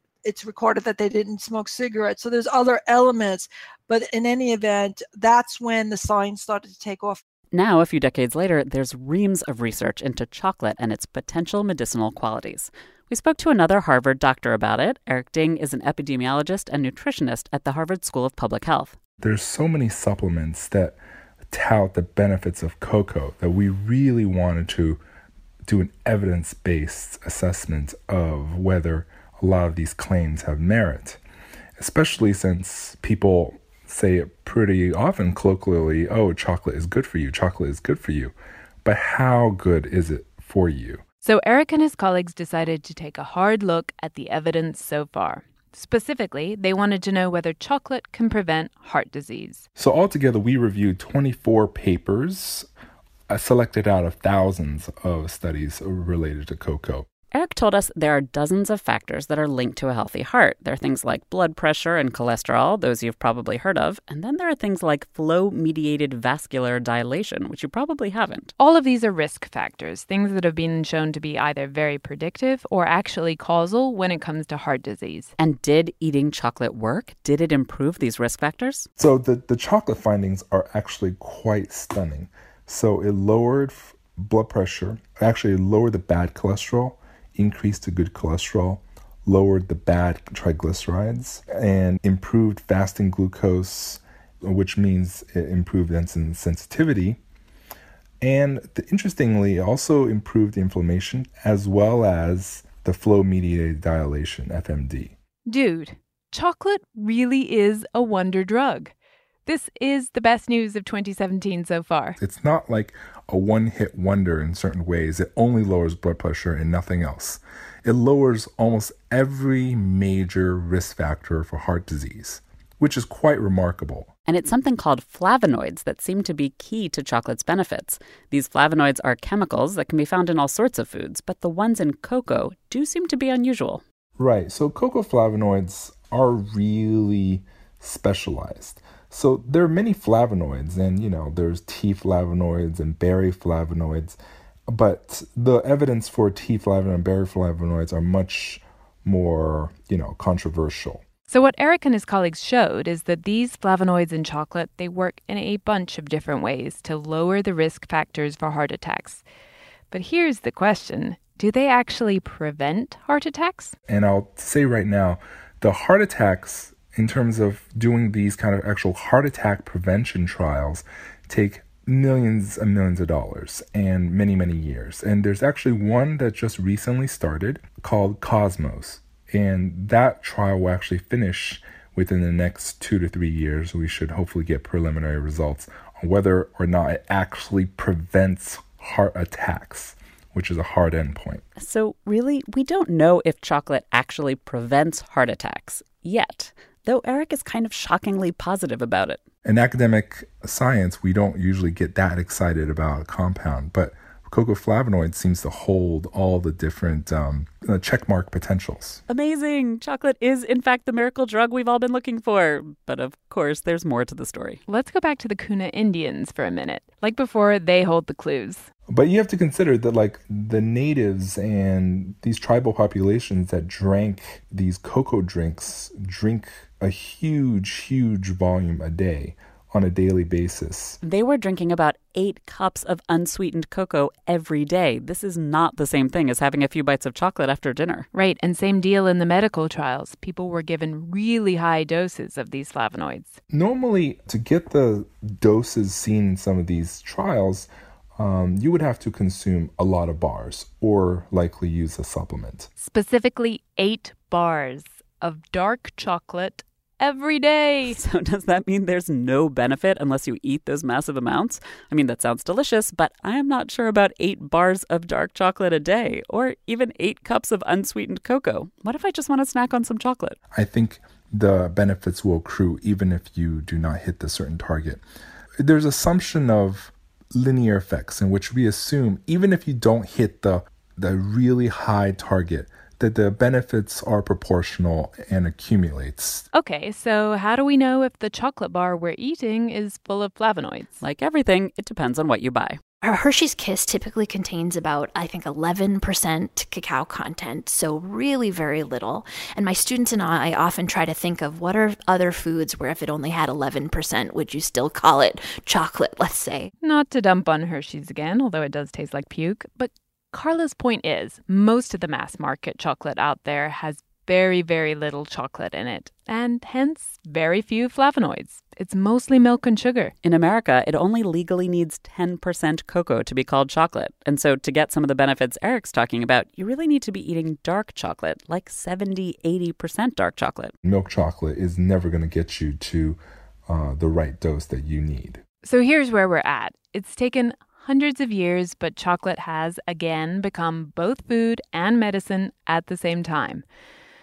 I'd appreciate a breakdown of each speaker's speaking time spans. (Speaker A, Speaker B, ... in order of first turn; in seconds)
Speaker A: 0.2-7.2
Speaker B: 7.5-18.9, 57.3-68.5, 75.4-78.9, 124.3-133.8, 191.6-199.2, 209.1-214.6, 231.0-238.1, 257.9-270.4, 291.0-292.8, 320.2-330.7
Speaker C: 19.2-21.0, 21.5-25.0, 25.7-31.2, 31.8-41.0, 49.8-52.7, 53.3-57.0, 79.0-97.2, 98.2-105.1, 112.2-124.1, 134.2-144.2, 144.7-151.0, 163.9-191.4, 199.4-209.0, 218.9-231.0, 243.5-252.7, 270.5-275.0, 275.6-286.4, 330.8-335.4
Speaker D: 41.2-49.6, 68.6-75.3, 105.5-108.9, 109.5-112.2, 151.3-159.2, 159.9-163.7, 214.7-218.7, 238.1-243.4, 252.8-258.0, 286.5-291.0, 306.8-320.1, 335.6-343.6
Speaker E: 293.0-306.7